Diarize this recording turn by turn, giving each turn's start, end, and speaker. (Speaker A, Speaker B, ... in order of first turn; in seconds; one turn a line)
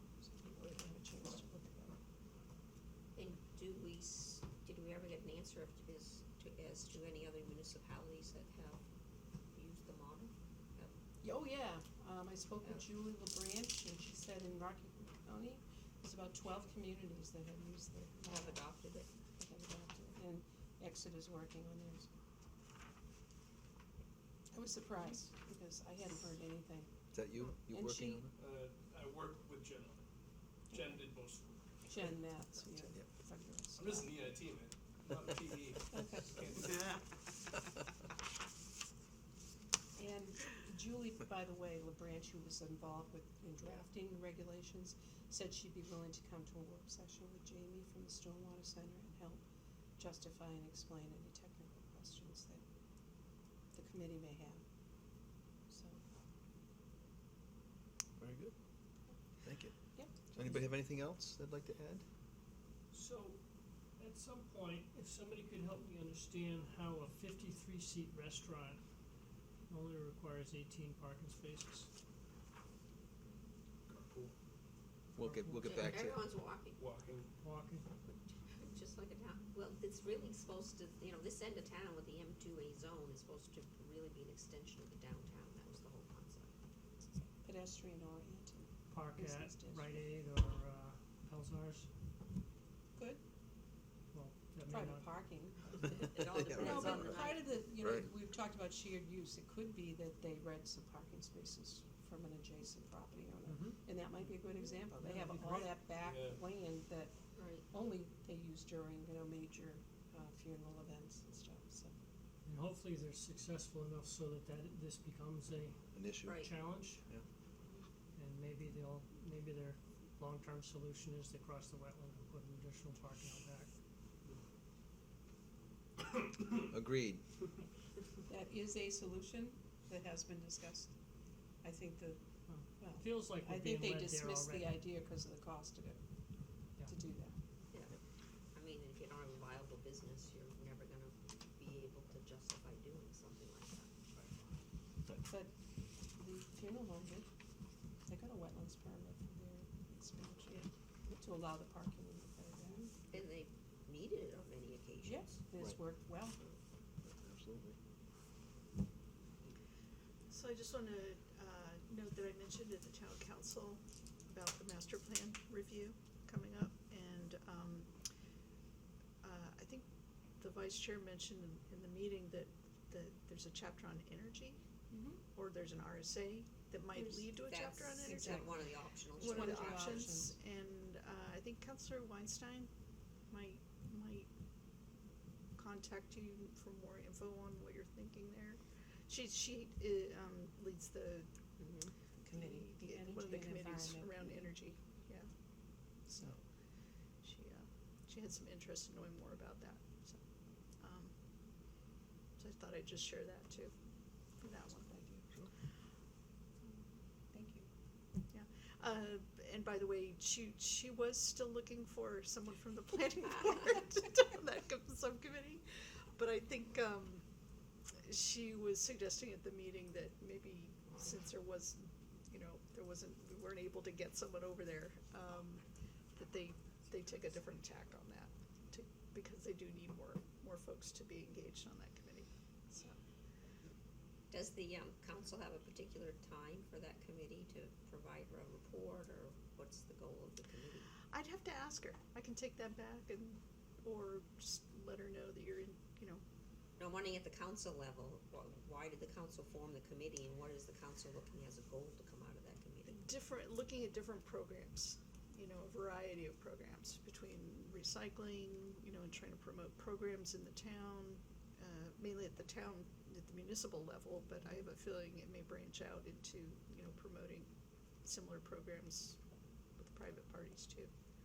Speaker A: 0.2-2.0
Speaker B: 3.2-8.8
Speaker B: 9.5-10.9
Speaker A: 11.2-18.6
Speaker B: 18.2-19.1
Speaker A: 19.4-22.1
Speaker A: 24.5-26.9
Speaker C: 27.1-28.3
Speaker A: 27.6-28.2
Speaker D: 28.4-30.0
Speaker D: 30.7-31.5
Speaker A: 30.7-31.0
Speaker A: 31.9-34.2
Speaker D: 33.8-36.9
Speaker A: 35.9-36.5
Speaker A: 40.0-49.4
Speaker A: 50.0-52.6
Speaker A: 53.7-54.6
Speaker A: 55.7-56.0
Speaker C: 58.2-58.5
Speaker C: 59.4-62.0
Speaker A: 59.9-60.6
Speaker E: 62.9-68.9
Speaker E: 69.7-71.9
Speaker D: 73.9-74.3
Speaker C: 75.2-76.2
Speaker E: 75.2-76.1
Speaker B: 75.6-76.8
Speaker D: 76.8-77.3
Speaker E: 77.4-77.8
Speaker B: 78.0-86.5
Speaker A: 87.0-90.0
Speaker E: 88.9-91.9
Speaker A: 93.0-93.2
Speaker E: 94.1-95.3
Speaker A: 94.7-96.0
Speaker B: 95.9-97.5
Speaker C: 96.2-98.1
Speaker A: 96.5-111.9
Speaker E: 103.5-103.9
Speaker E: 105.0-105.8
Speaker D: 106.1-106.4
Speaker B: 107.3-107.7
Speaker E: 112.5-117.0
Speaker C: 115.9-117.2
Speaker B: 116.2-116.5
Speaker E: 118.2-123.7
Speaker C: 126.7-127.2
Speaker A: 128.3-130.9
Speaker A: 131.6-136.0
Speaker E: 132.5-134.8
Speaker A: 136.8-137.4
Speaker B: 137.7-138.0
Speaker B: 138.5-143.9
Speaker A: 145.3-145.5
Speaker A: 146.2-147.3
Speaker A: 148.1-152.9
Speaker B: 153.1-155.3
Speaker A: 155.0-156.4
Speaker C: 157.0-157.8
Speaker F: 160.3-167.9
Speaker F: 169.2-169.9
Speaker F: 170.4-174.6
Speaker A: 174.9-175.2
Speaker F: 175.3-182.7
Speaker A: 176.9-177.3
Speaker B: 177.4-180.2
Speaker A: 178.0-180.3
Speaker F: 183.3-184.3
Speaker F: 185.6-191.3
Speaker B: 191.6-191.9
Speaker A: 192.2-194.5
Speaker F: 192.3-195.3
Speaker F: 196.1-196.4
Speaker F: 197.2-200.2
Speaker F: 200.8-201.1
Speaker F: 202.4-203.7
Speaker F: 204.4-205.0
Speaker A: 204.9-205.2
Speaker A: 207.3-207.7
Speaker F: 208.3-215.7
Speaker F: 216.2-217.2
Speaker F: 218.1-233.0
Speaker B: 234.3-240.9
Speaker F: 241.1-246.2
Speaker B: 246.8-253.0
Speaker F: 252.9-267.5
Speaker F: 268.1-269.2
Speaker F: 269.8-270.9